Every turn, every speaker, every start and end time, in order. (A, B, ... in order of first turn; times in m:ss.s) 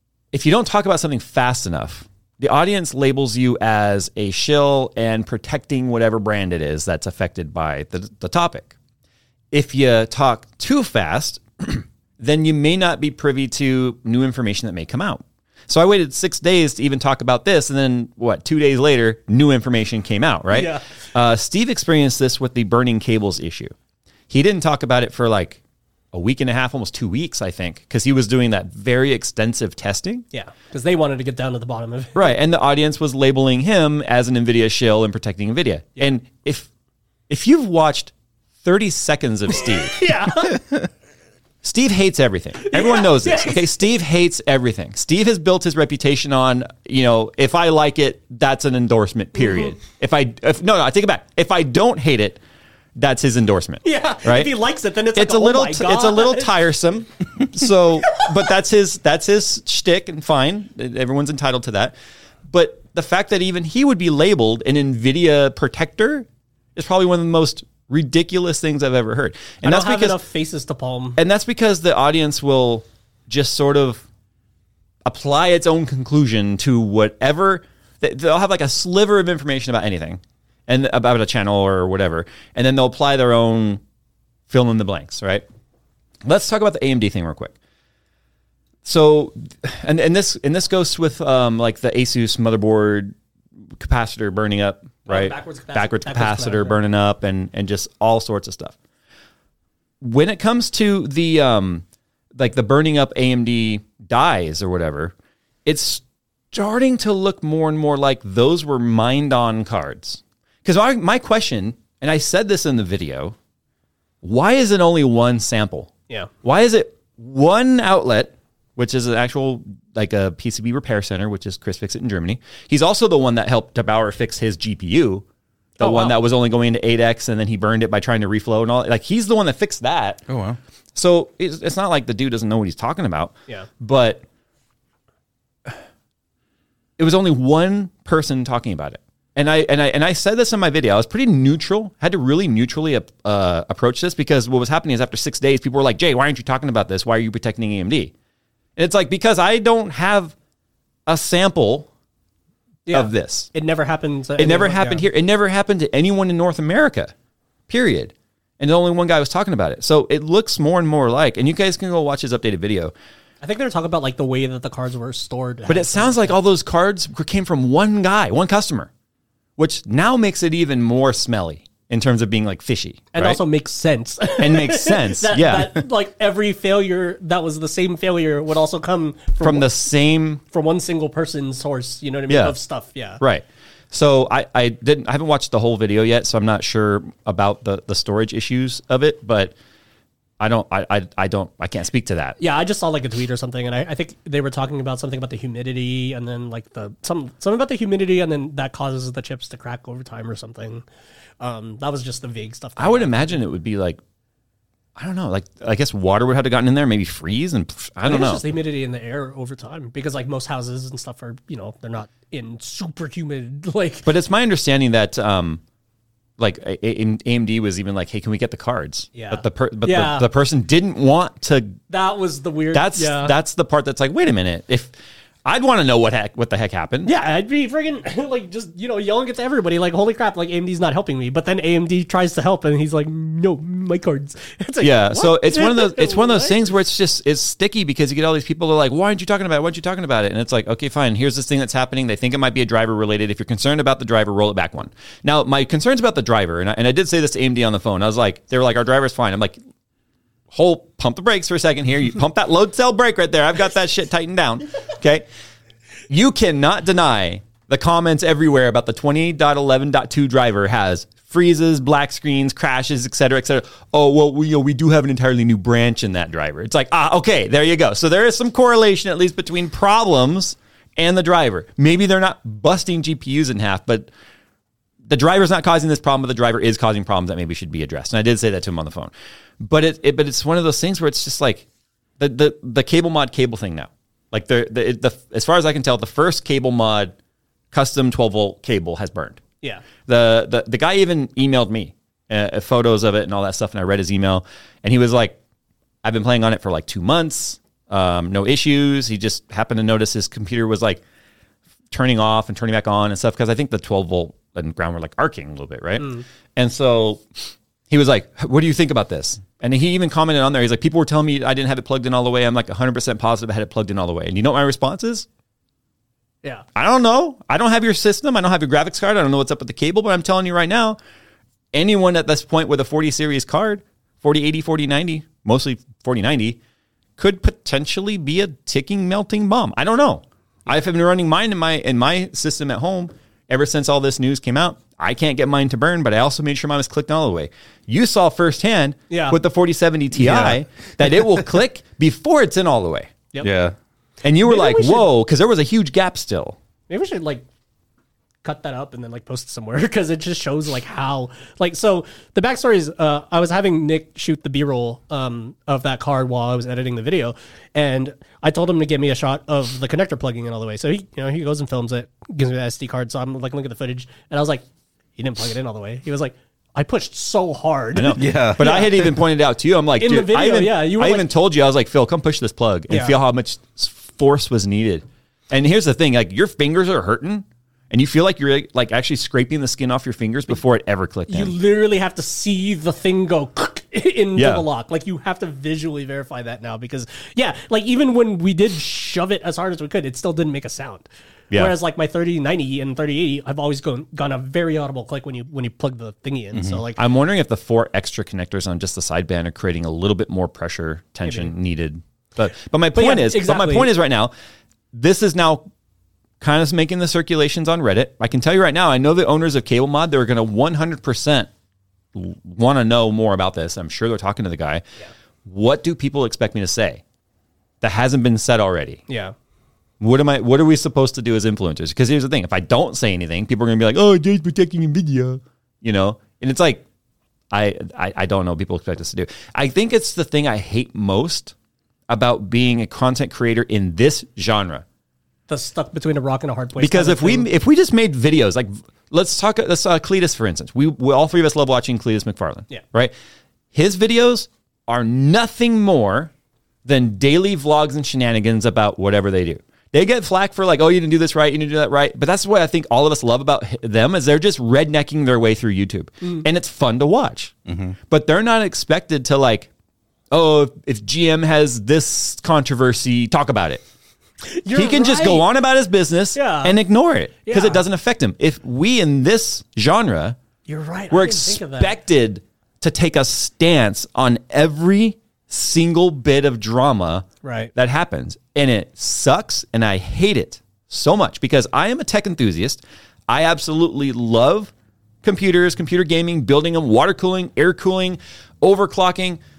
0:00.3-0:08.7 A
0:09.5-0:23.7 A
0:20.5-0:20.8 B
0:24.3-0:25.6 A
0:26.1-0:30.2 A
0:30.3-0:32.3 B
0:32.2-0:36.7 A
0:37.3-0:38.1 A
0:38.6-0:40.0 A
0:39.5-0:40.6 B
0:41.6-0:52.4 A
0:42.6-0:43.6 B
0:49.4-0:49.7 B
0:53.0-0:54.5 A
0:53.8-0:56.5 B
0:55.1-1:01.9 A
1:02.5-1:10.2 A
1:09.6-1:11.2 B
1:11.2-1:14.0 A
1:15.0-1:23.8 A
1:24.5-1:25.4 A
1:26.2-1:27.5 A
1:28.8-1:33.1 A
1:33.8-1:38.7 A
1:35.1-1:36.8 B
1:40.0-1:41.8 A
1:42.3-1:45.1 A
1:45.6-1:53.3 A
1:54.2-1:55.9 A
1:56.4-2:05.2 A
2:05.8-2:06.2 B
2:05.8-2:10.2 A
2:10.3-2:10.6 C
2:10.9-2:14.2 A
2:17.0-2:28.1 A
2:28.8-2:30.3 A
2:31.1-2:31.9 A
2:32.9-2:35.0 B
2:32.9-2:33.5 A
2:34.4-2:37.1 A
2:37.7-2:42.9 A
2:43.4-2:46.4 B
2:45.7-2:48.9 A
2:49.6-2:53.4 A
2:53.1-2:59.7 B
2:54.4-2:55.8 A
2:59.4-3:00.4 A
3:00.5-3:03.2 B
3:02.3-3:02.6 A
3:03.2-3:09.5 A
3:10.4-3:12.4 A
3:12.4-3:20.8 B
3:21.4-3:23.4 B
3:22.8-3:24.0 A
3:25.0-3:28.4 A
3:28.0-3:34.1 B
3:34.0-3:35.6 A
3:36.4-3:41.8 A
3:39.1-3:40.3 B
3:41.9-3:43.4 B
3:42.7-3:44.9 A
3:45.4-3:47.1 A
3:47.0-3:56.7 B
3:54.8-4:09.6 A
4:10.5-4:15.2 A
4:16.1-4:34.1 A
4:35.1-4:41.6 A
4:42.2-4:47.1 A
4:47.7-4:49.4 A
4:50.1-4:55.4 A
4:56.0-5:01.0 A
5:01.9-5:07.2 A
5:06.0-5:06.2 B
5:07.9-5:15.2 A
5:16.7-5:21.0 A
5:21.7-5:26.6 A
5:27.2-5:43.1 A
5:39.1-5:39.4 B
5:40.1-5:40.6 C
5:43.4-5:43.7 C
5:44.2-5:46.6 A
5:44.4-5:45.1 B
5:46.9-5:47.4 B
5:48.4-6:04.6 B
6:05.2-6:09.0 B
6:07.9-6:21.5 A
6:08.2-6:09.1 C
6:10.0-6:11.2 B
6:12.9-6:13.2 B
6:21.3-6:37.0 B
6:24.3-6:24.6 A
6:36.5-6:36.8 C
6:37.0-6:44.3 A
6:41.2-6:41.5 B
6:42.9-6:43.9 B
6:44.9-6:45.7 A
6:46.4-6:51.5 A
6:52.1-6:54.8 A
6:55.4-6:57.0 A
6:57.8-6:59.0 A
6:59.1-6:59.3 B
7:00.0-7:06.8 A
7:07.5-7:11.5 A
7:12.1-7:14.8 A
7:15.5-7:17.5 B
7:16.8-7:23.1 A
7:23.7-7:26.3 A
7:26.8-7:37.5 A
7:37.6-7:38.0 C
7:38.1-7:39.7 A
7:40.3-7:43.8 A
7:44.5-7:45.4 B
7:44.7-7:50.4 A
7:46.3-7:46.8 B
7:47.4-7:47.8 B
7:50.7-7:51.9 B
7:51.1-8:04.7 A
7:57.4-7:57.7 B
8:05.2-8:09.4 A